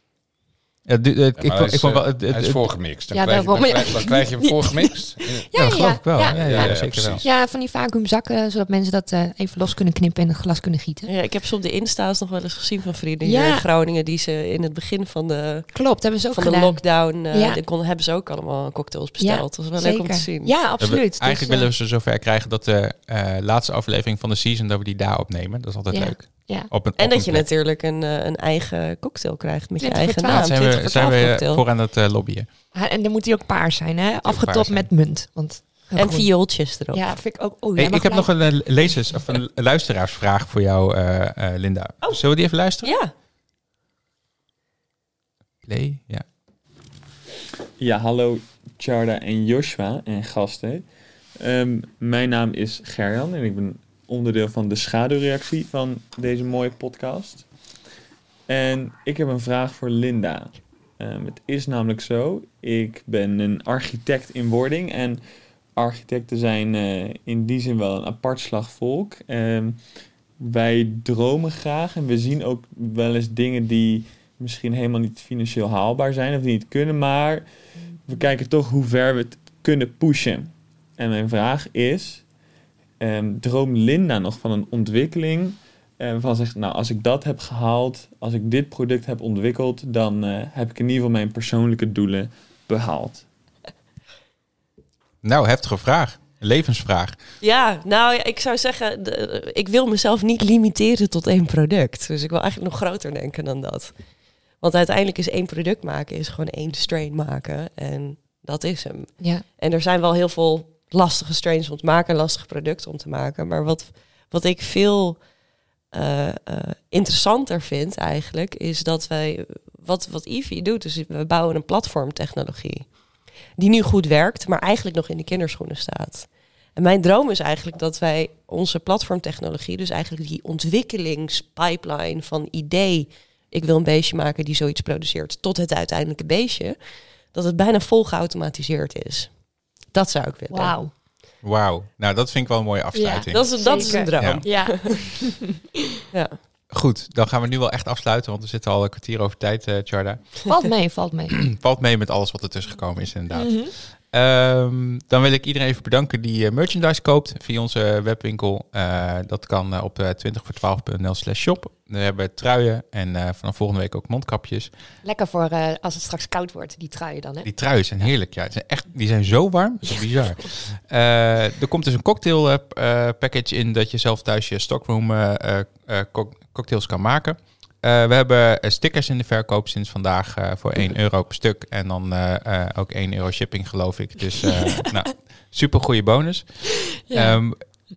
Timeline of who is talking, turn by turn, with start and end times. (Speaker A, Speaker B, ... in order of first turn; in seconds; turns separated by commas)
Speaker A: 0.9-2.6, Speaker B: 1.4-7.2, Speaker C: 3.1-11.1, Speaker A: 5.5-7.2, Speaker D: 11.1-20.5, Speaker C: 13.2-13.7, Speaker C: 15.7-17.6, Speaker C: 19.2-21.7, Speaker A: 20.8-27.4, Speaker C: 25.9-26.7, Speaker D: 27.0-31.6, Speaker C: 29.8-30.5, Speaker A: 30.2-32.5, Speaker C: 32.7-36.3, Speaker A: 34.2-34.9, Speaker D: 36.0-37.0, Speaker C: 36.9-38.3, Speaker A: 37.8-42.9, Speaker D: 42.8-43.1, Speaker A: 45.6-46.2, Speaker E: 47.8-50.9, Speaker E: 51.4-57.4, Speaker E: 58.5-65.2, Speaker E: 65.8-69.8, Speaker E: 70.4-77.5, Speaker E: 78.1-82.2, Speaker E: 83.0-93.2, Speaker A: 95.2-97.2, Speaker D: 97.4-103.9, Speaker D: 104.6-115.2, Speaker D: 115.9-122.9, Speaker D: 123.6-136.8, Speaker D: 137.3-139.3, Speaker D: 139.9-140.8, Speaker C: 140.5-140.9, Speaker A: 141.4-144.5, Speaker C: 142.9-145.6, Speaker D: 143.3-144.9, Speaker D: 146.1-146.4, Speaker A: 146.7-150.4, Speaker C: 150.5-151.4, Speaker A: 151.3-164.7, Speaker C: 153.3-153.7, Speaker C: 165.0-167.5, Speaker A: 167.4-186.5, Speaker C: 186.9-187.4, Speaker A: 187.1-187.6